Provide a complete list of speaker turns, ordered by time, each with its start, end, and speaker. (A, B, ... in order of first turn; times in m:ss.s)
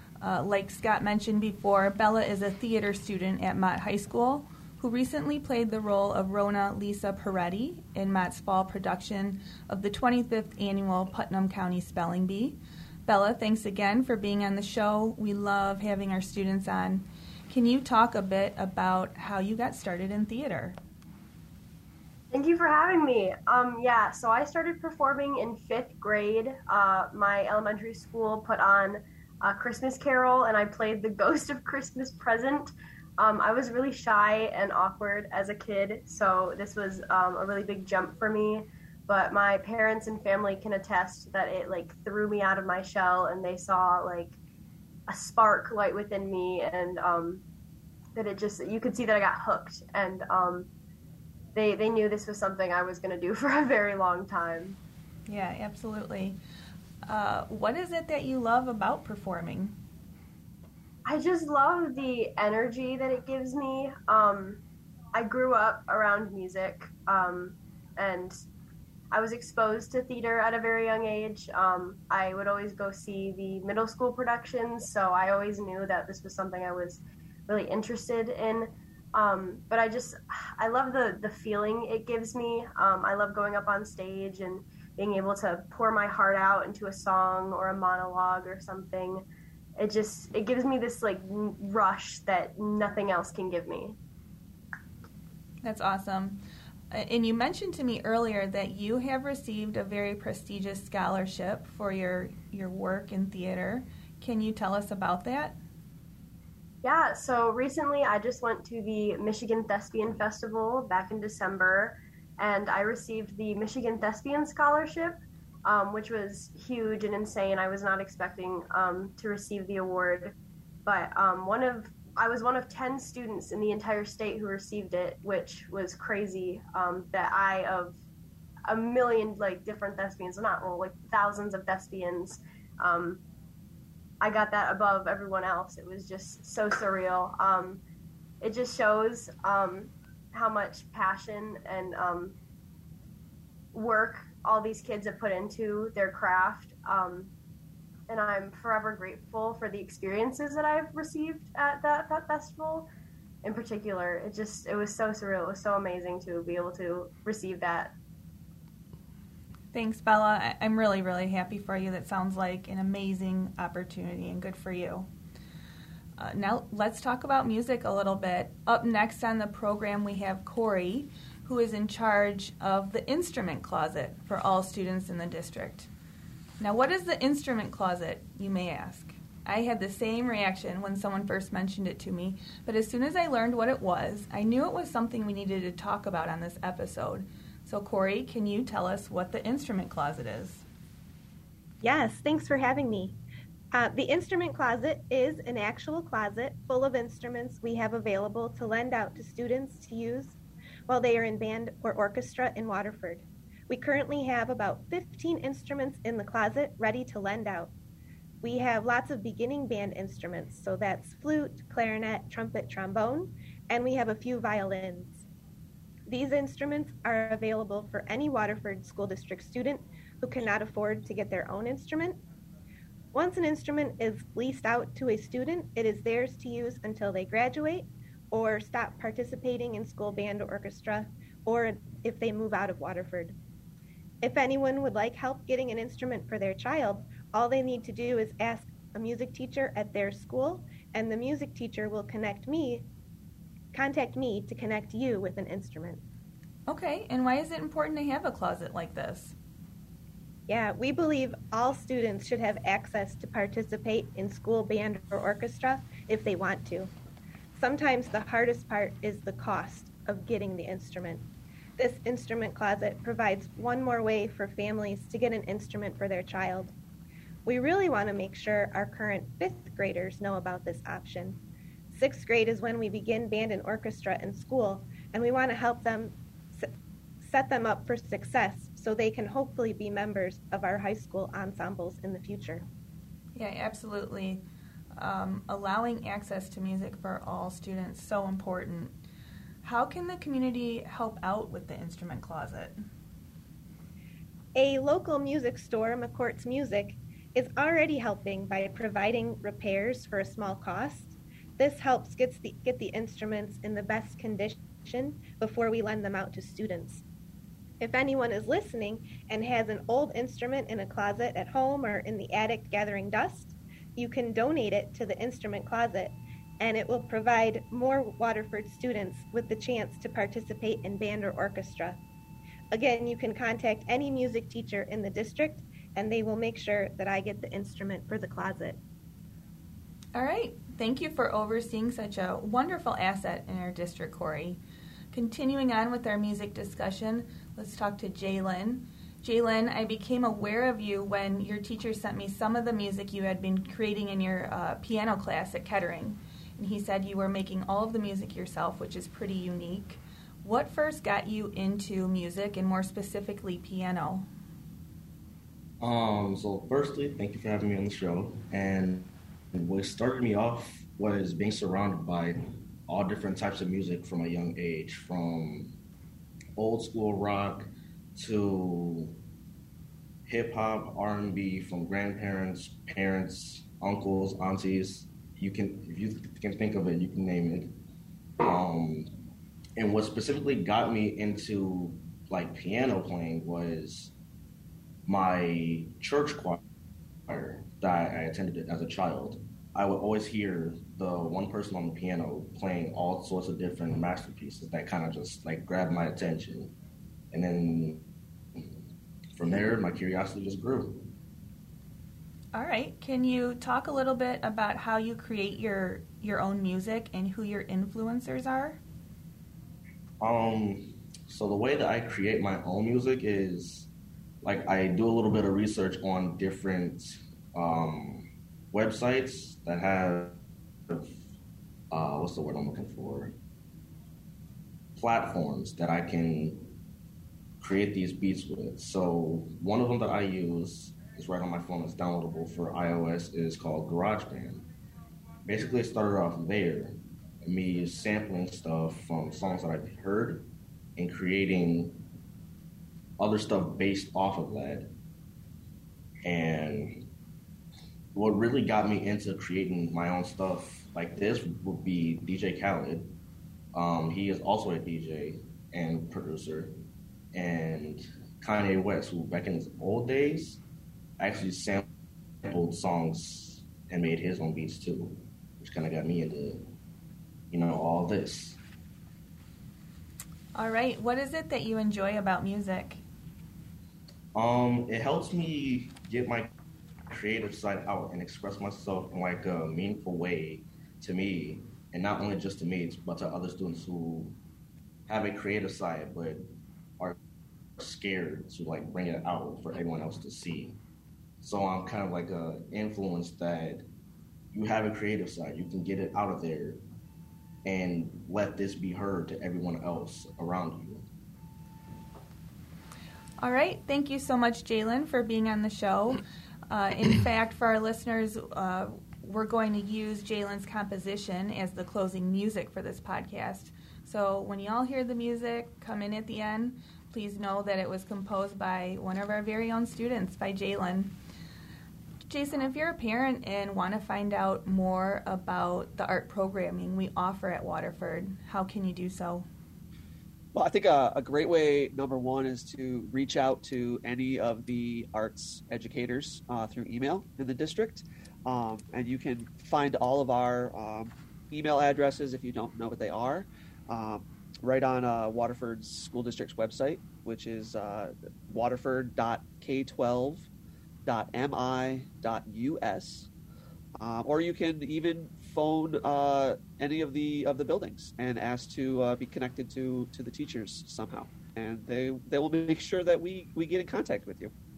0:00.2-0:20.8 A
0:22.3-0:44.4 B
0:45.1-0:47.4 B
0:48.1-0:50.7 B
0:51.5-0:54.8 B
0:55.3-0:56.4 A
0:57.1-0:59.8 A
1:01.0-1:04.6 B
1:05.1-1:08.4 B
1:09.1-1:29.2 B
1:29.8-1:34.0 B
1:35.6-1:36.4 A
1:36.9-1:45.6 A
1:46.8-2:08.0 B
2:08.7-2:13.2 B
2:14.2-2:17.8 B
2:18.4-2:22.4 B
2:23.7-2:27.3 B
2:28.1-2:32.9 B
2:33.4-2:37.9 B
2:39.7-2:45.1 A
2:46.2-2:55.9 A
2:56.6-3:10.6 A
3:11.8-3:13.2 C
3:13.7-3:27.7 C
3:28.4-3:35.3 C
3:36.0-3:42.2 C
3:43.1-3:53.4 C
3:54.2-4:02.9 C
4:03.7-4:06.0 C
4:06.7-4:09.3 A
4:10.5-4:16.9 C
4:17.5-4:26.7 C
4:27.4-4:31.4 C
4:31.9-4:42.7 C
4:43.4-4:44.4 A
4:44.9-4:48.9 A
4:49.6-4:52.8 A
4:54.5-5:07.0 C
5:07.8-5:22.0 C
5:22.7-5:28.8 C
5:30.1-5:34.6 A
5:35.1-5:54.3 A
5:55.8-6:05.8 D
6:06.6-6:09.2 D
6:10.3-6:17.8 D
6:18.4-6:19.1 D
6:19.8-6:24.1 D
6:25.1-6:26.6 D
6:27.3-6:36.7 D
6:37.3-6:38.0 D
6:39.4-6:41.1 D
6:42.5-6:48.8 A
6:50.2-6:53.9 D
6:54.4-7:01.2 D
7:01.9-7:03.4 D
7:05.0-7:06.8 D
7:07.6-7:14.7 D
7:15.4-7:22.0 D
7:23.2-7:24.9 D
7:26.2-7:27.1 D
7:28.1-7:33.1 D
7:33.7-7:36.8 D
7:37.3-7:40.6 D
7:41.2-7:41.9 D
7:42.4-7:46.7 D
7:47.5-7:48.6 D
7:50.5-7:53.0 A
7:54.3-7:56.5 D
7:57.1-8:04.4 D
8:05.1-8:06.4 D
8:07.8-8:10.8 D
8:11.4-8:13.8 D
8:14.5-8:16.8 D
8:17.6-8:21.0 D
8:23.4-8:41.1 A
8:42.3-8:49.5 A
8:50.5-9:10.5 E
9:11.0-9:13.3 E
9:14.0-9:24.5 E